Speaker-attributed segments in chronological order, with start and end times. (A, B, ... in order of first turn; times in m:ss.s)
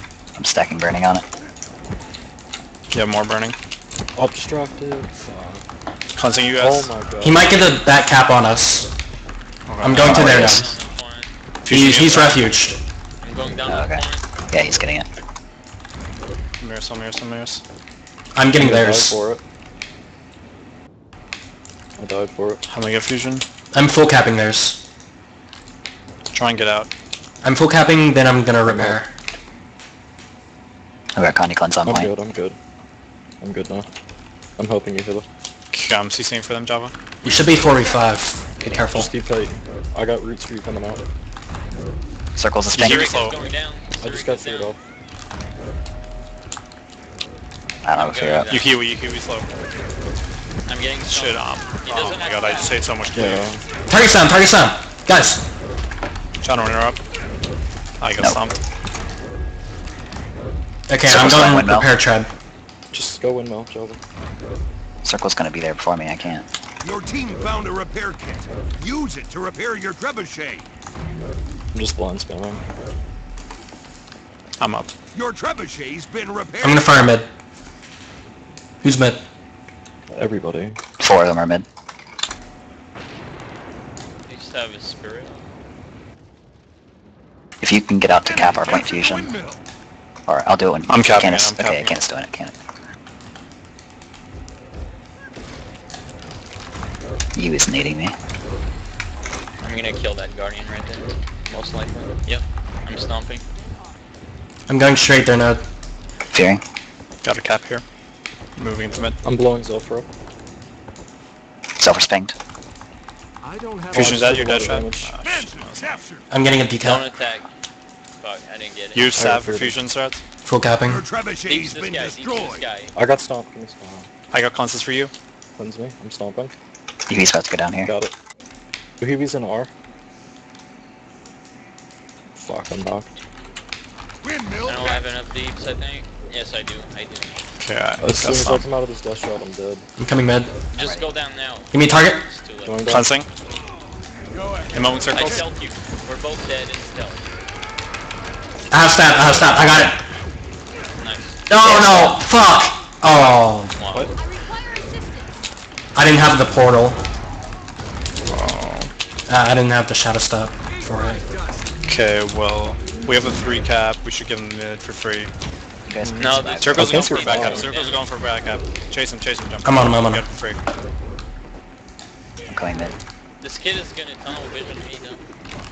0:00.3-0:01.2 A
0:02.9-0:03.6 B
0:04.2-0:05.6 C
0:06.1-0:07.0 B
0:06.6-0:07.6 C
0:07.2-0:08.9 D
0:09.6-0:10.2 B
0:09.8-0:10.8 D
0:09.9-0:11.3 E
0:10.0-0:10.5 A
0:11.6-0:12.5 B
0:11.7-0:12.8 D
0:13.2-0:14.2 E
0:13.6-0:15.1 A
0:16.6-0:17.6 B
0:18.3-0:19.2 D
0:18.6-0:19.4 C
0:22.0-0:22.6 C
0:22.6-0:23.4 B
0:23.7-0:24.8 D
0:26.3-0:26.9 B
0:27.4-0:29.1 D
0:28.6-0:29.0 C
0:31.1-0:32.1 A
0:31.8-0:32.6 C
0:33.4-0:33.9 C
0:34.6-0:35.3 C
0:35.7-0:36.9 B
0:37.2-0:37.9 F
0:37.2-0:39.1 D
0:38.9-0:41.0 C
0:42.4-0:43.0 A
0:42.7-0:43.4 B
0:42.8-0:44.7 E
0:44.0-0:44.8 C
0:47.8-0:48.5 A
0:47.9-0:48.7 E
0:48.5-0:49.5 B
0:50.6-0:52.8 E
0:51.1-0:53.6 B
0:53.1-0:53.6 C
0:53.9-0:55.4 D
0:56.4-0:57.0 B
0:58.0-0:58.6 B
1:00.9-1:02.3 D
1:01.1-1:01.9 A
1:02.9-1:04.0 C
1:05.0-1:06.5 A
1:06.8-1:10.6 F
1:11.7-1:12.6 C
1:14.6-1:14.9 B
1:15.1-1:16.8 F
1:16.6-1:17.3 D
1:18.8-1:19.2 D
1:20.1-1:20.8 C
1:21.0-1:21.6 A
1:24.3-1:25.4 E
1:27.6-1:29.3 A
1:28.3-1:29.6 F
1:30.3-1:32.5 A
1:30.9-1:32.0 B
1:37.4-1:38.1 A
1:39.6-1:43.4 E
1:44.7-1:45.6 D
1:46.3-1:46.6 A
1:47.2-1:47.8 B
1:48.6-1:49.2 B
1:49.2-1:50.1 C
1:51.8-1:52.4 A
1:53.9-1:56.1 B
1:53.9-1:55.2 C
1:55.2-1:56.2 F
1:56.3-1:57.0 D
1:56.8-1:57.5 E
1:58.2-1:59.1 E
1:58.9-2:00.2 B
1:59.2-1:59.8 C
2:00.4-2:01.0 D
2:00.9-2:02.6 F
2:01.5-2:02.9 E
2:02.9-2:04.1 C
2:04.3-2:05.1 B
2:05.6-2:06.5 C
2:07.1-2:07.9 A
2:07.8-2:08.1 C
2:09.0-2:09.7 C
2:12.4-2:13.1 C
2:14.2-2:14.9 F
2:14.6-2:17.5 E
2:17.6-2:18.7 B
2:18.0-2:19.9 C
2:20.0-2:20.5 D
2:20.7-2:22.9 E
2:20.8-2:21.1 A
2:21.7-2:22.2 D
2:22.6-2:23.0 C
2:22.9-2:23.3 B
2:24.7-2:25.4 B
2:25.1-2:27.3 E
2:28.7-2:30.0 D
2:29.4-2:29.9 E
2:31.0-2:31.4 E
2:31.5-2:33.7 D
2:31.6-2:32.2 A
2:33.7-2:34.1 E
2:35.9-2:37.0 D
2:38.3-2:38.9 B
2:39.3-2:41.2 D
2:41.8-2:45.3 B
2:45.8-2:47.0 A
2:46.0-2:47.7 C
2:46.2-2:48.0 E
2:46.4-2:50.6 B
2:49.6-2:50.2 D
2:52.5-2:52.9 A
2:53.4-2:55.2 E